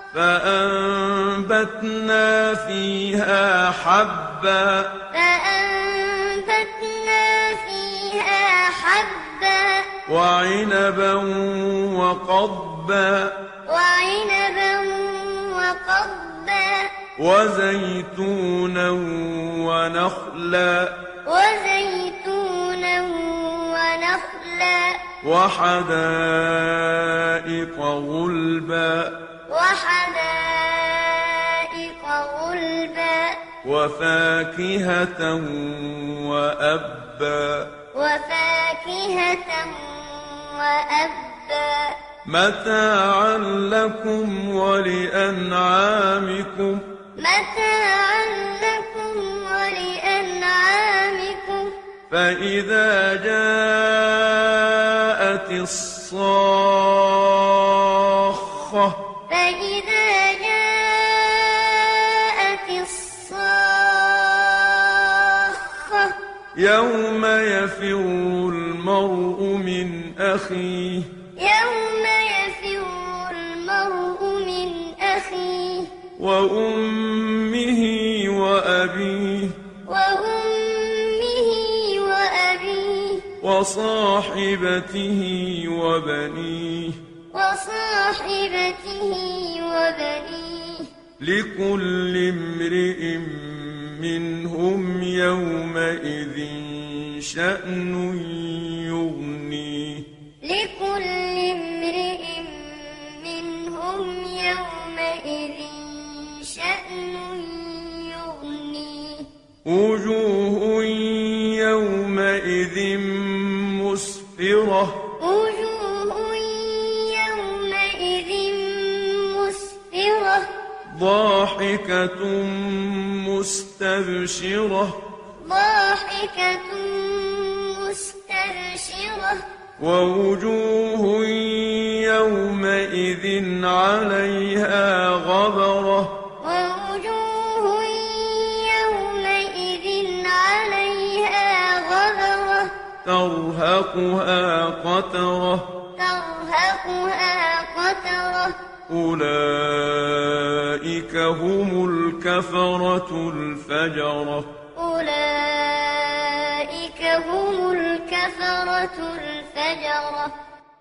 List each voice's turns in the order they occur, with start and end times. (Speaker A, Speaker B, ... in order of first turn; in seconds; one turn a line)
Speaker A: 0.1-5.0
Speaker B: 5.1-9.9
Speaker A: 10.1-13.4
Speaker B: 13.7-16.9
Speaker A: 17.1-21.0
Speaker B: 21.2-25.1
Speaker A: 25.2-29.2
Speaker B: 29.5-33.4
Speaker A: 33.6-37.7
Speaker B: 37.9-42.0
Speaker A: 42.2-46.9
Speaker B: 47.1-51.8
Speaker A: 52.1-59.0
Speaker B: 59.3-66.2
Speaker A: 66.5-71.1
Speaker B: 71.4-76.0
Speaker A: 76.2-79.6
Speaker B: 79.8-83.3
Speaker A: 83.4-87.0
Speaker B: 87.3-90.9
Speaker A: 91.2-100.1
Speaker B: 100.4-109.3
Speaker A: 109.6-115.0
Speaker B: 115.2-120.5
Speaker A: 120.8-125.0
Speaker B: 125.4-129.4
Speaker A: 129.8-136.2
Speaker B: 136.4-142.7
Speaker A: 143.0-145.7
Speaker B: 145.9-148.6
Speaker A: 148.9-154.5
Speaker B: 154.7-160.3